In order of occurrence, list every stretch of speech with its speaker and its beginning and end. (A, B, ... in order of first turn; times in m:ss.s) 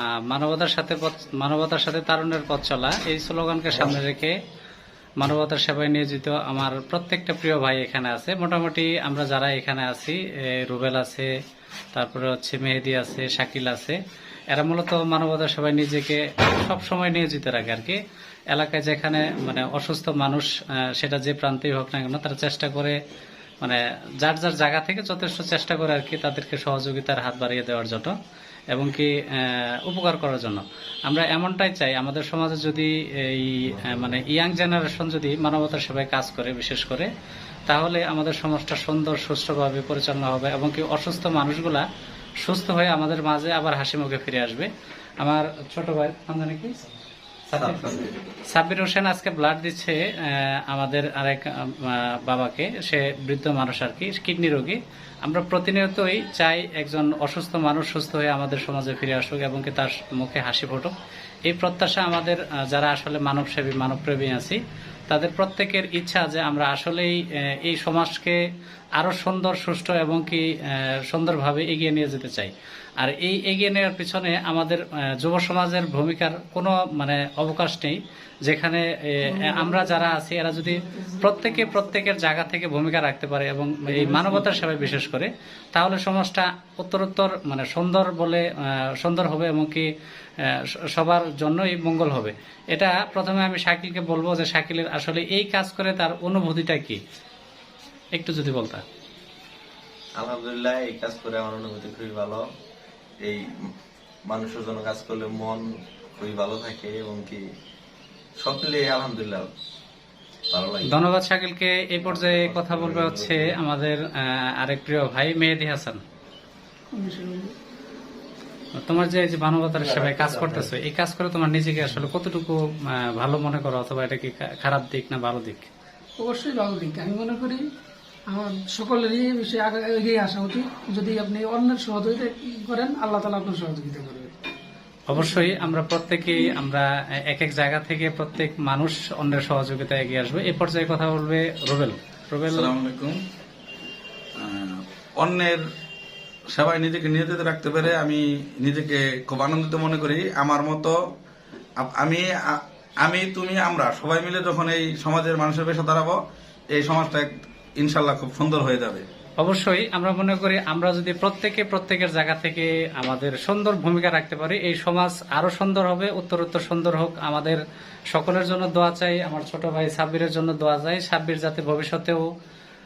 0:00.3-0:04.3 A
0:05.2-0:11.3 A
0:11.9-0:14.0 A
0:14.5-0:18.0 A
0:18.5-0:23.0 A
0:23.6-0:28.1 A
0:28.7-0:37.1 A
0:33.7-0:34.2 B
0:37.7-0:41.8 A
0:42.4-0:44.7 A
0:45.2-0:46.8 A
0:47.5-0:47.9 A
0:47.5-0:48.1 B
0:48.5-1:00.9 A
1:01.5-1:08.4 A
1:09.0-1:10.4 A
1:11.0-1:28.4 A
1:19.3-1:20.2 C
1:20.9-1:21.8 C
1:29.0-1:29.9 A
1:30.5-1:37.0 A
1:38.1-1:38.8 A
1:40.2-1:42.4 B
1:44.3-1:45.6 B
1:46.2-1:47.4 B
1:48.4-1:49.5 B
1:50.5-1:51.0 B
1:50.9-1:56.0 A
1:52.0-1:53.6 B
1:56.9-1:57.5 C
1:58.8-2:05.7 A
1:59.8-2:00.7 B
2:06.2-2:07.6 C
2:08.3-2:14.3 C
2:15.1-2:22.7 A
2:15.1-2:15.6 C
2:22.5-2:23.2 D
2:24.4-2:25.6 D
2:26.5-2:31.0 D
2:31.8-2:36.2 D
2:36.7-2:37.3 D
2:37.8-2:39.0 D
2:39.4-2:47.6 A
2:48.1-2:52.3 A